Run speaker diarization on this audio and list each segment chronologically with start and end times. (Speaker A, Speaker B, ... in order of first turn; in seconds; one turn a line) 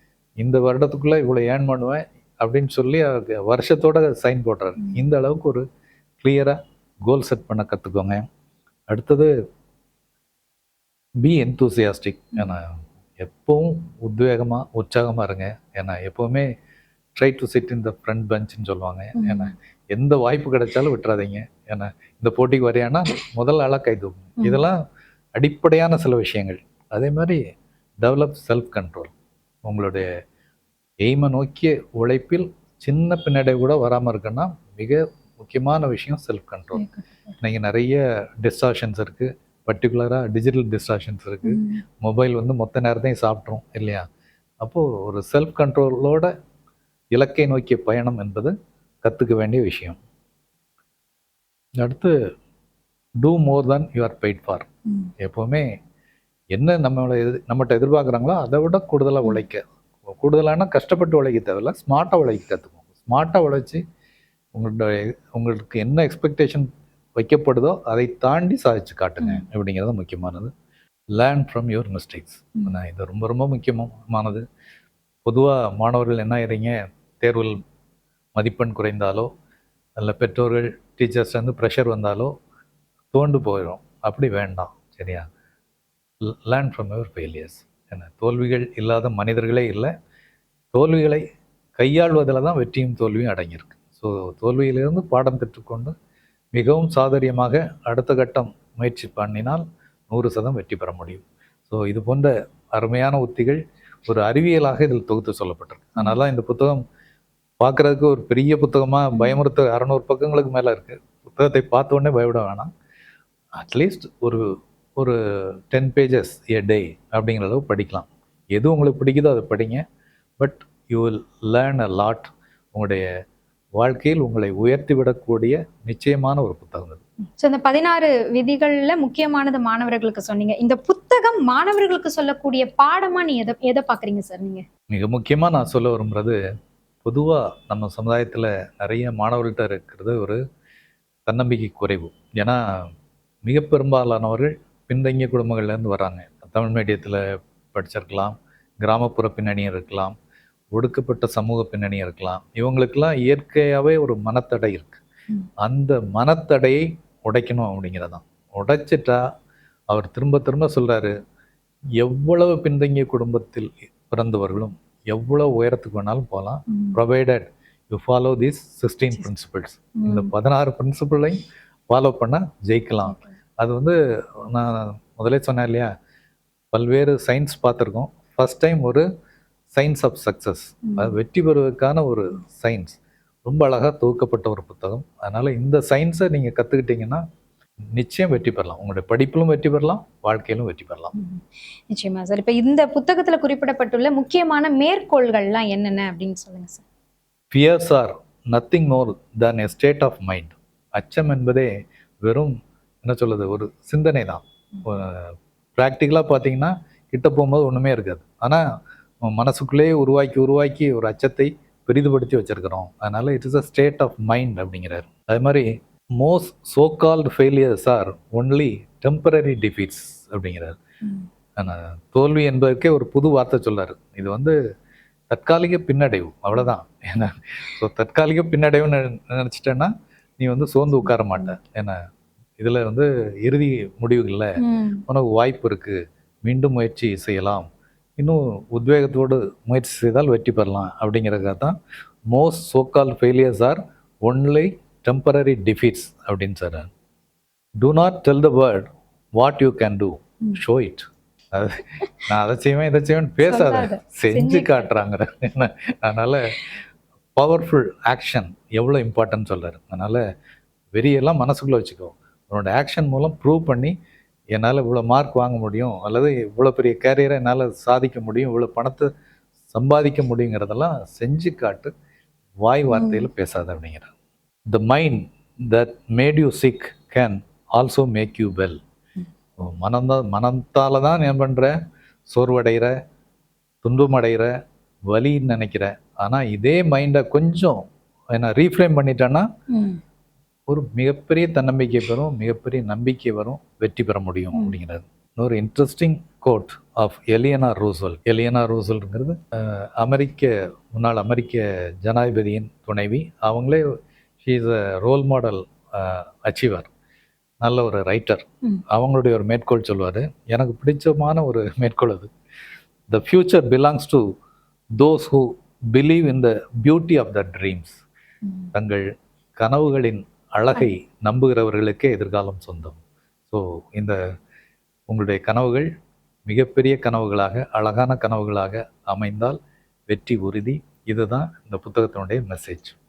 Speaker A: 0.4-5.6
Speaker A: 6.2-8.2
Speaker A: 8.9-9.3
Speaker A: 11.2-16.5
Speaker A: 17.1-24.8
Speaker B: 19.2-19.5
Speaker B: 24.4-24.6
Speaker A: 25.4-27.4
Speaker A: 28.0-29.1
Speaker A: 29.6-30.1
Speaker A: 31.0-36.8
Speaker B: 36.7-37.4
Speaker A: 37.4-44.0
Speaker B: 41.4-41.8
Speaker A: 44.6-46.3
Speaker A: 47.1-50.0
Speaker A: 51.8-52.1
Speaker A: 53.2-54.7
Speaker A: 55.2-55.7
Speaker A: 56.5-63.8
Speaker A: 64.5-70.5
Speaker A: 71.2-74.4
Speaker A: 75.2-77.6
Speaker A: 78.3-79.3
Speaker A: 80.0-82.3
Speaker A: 83.1-85.3
Speaker A: 86.2-89.9
Speaker A: 90.7-91.2
Speaker A: 91.8-95.9
Speaker A: 96.5-106.8
Speaker A: 107.6-112.7
Speaker B: 109.1-109.4
Speaker A: 113.6-114.5
Speaker A: 115.0-119.8
Speaker A: 120.4-123.1
Speaker A: 123.8-127.0
Speaker B: 127.4-134.6
Speaker A: 134.9-136.4
Speaker A: 137.0-140.4
Speaker A: 141.3-142.8
Speaker A: 143.5-150.2
Speaker A: 150.7-155.0
Speaker A: 155.6-159.2
Speaker A: 159.9-161.1
Speaker A: 162.0-171.4
Speaker B: 166.7-167.0
Speaker B: 170.0-170.3
Speaker A: 171.9-175.9
Speaker B: 173.1-173.3
Speaker A: 176.7-179.1
Speaker A: 179.7-187.2
Speaker B: 180.9-181.2
Speaker A: 187.9-191.1
Speaker B: 191.2-196.8
Speaker A: 197.5-201.7
Speaker A: 202.2-208.6
Speaker A: 209.2-220.8
Speaker A: 221.6-224.6
Speaker A: 225.3-232.0
Speaker B: 231.1-231.5
Speaker A: 232.6-234.5
Speaker B: 234.6-235.0
Speaker A: 235.1-237.7
Speaker A: 238.2-241.8
Speaker A: 242.3-246.9
Speaker A: 247.8-256.7
Speaker B: 253.4-254.9
Speaker A: 257.4-260.2
Speaker A: 260.9-263.9
Speaker A: 264.6-269.1
Speaker A: 269.7-271.9
Speaker A: 272.6-274.1
Speaker B: 272.9-273.3
Speaker A: 274.7-278.8
Speaker A: 279.6-281.8
Speaker A: 282.3-282.9
Speaker A: 283.8-284.5
Speaker A: 285.1-287.8
Speaker A: 288.3-289.5
Speaker B: 289.7-290.0
Speaker A: 290.7-303.9
Speaker A: 304.4-306.9
Speaker A: 307.6-312.3
Speaker A: 313.1-314.3
Speaker A: 315.0-318.0
Speaker A: 318.8-319.1
Speaker A: 319.6-323.0
Speaker A: 323.5-324.2
Speaker A: 325.1-325.9
Speaker A: 326.5-329.6
Speaker A: 330.1-332.9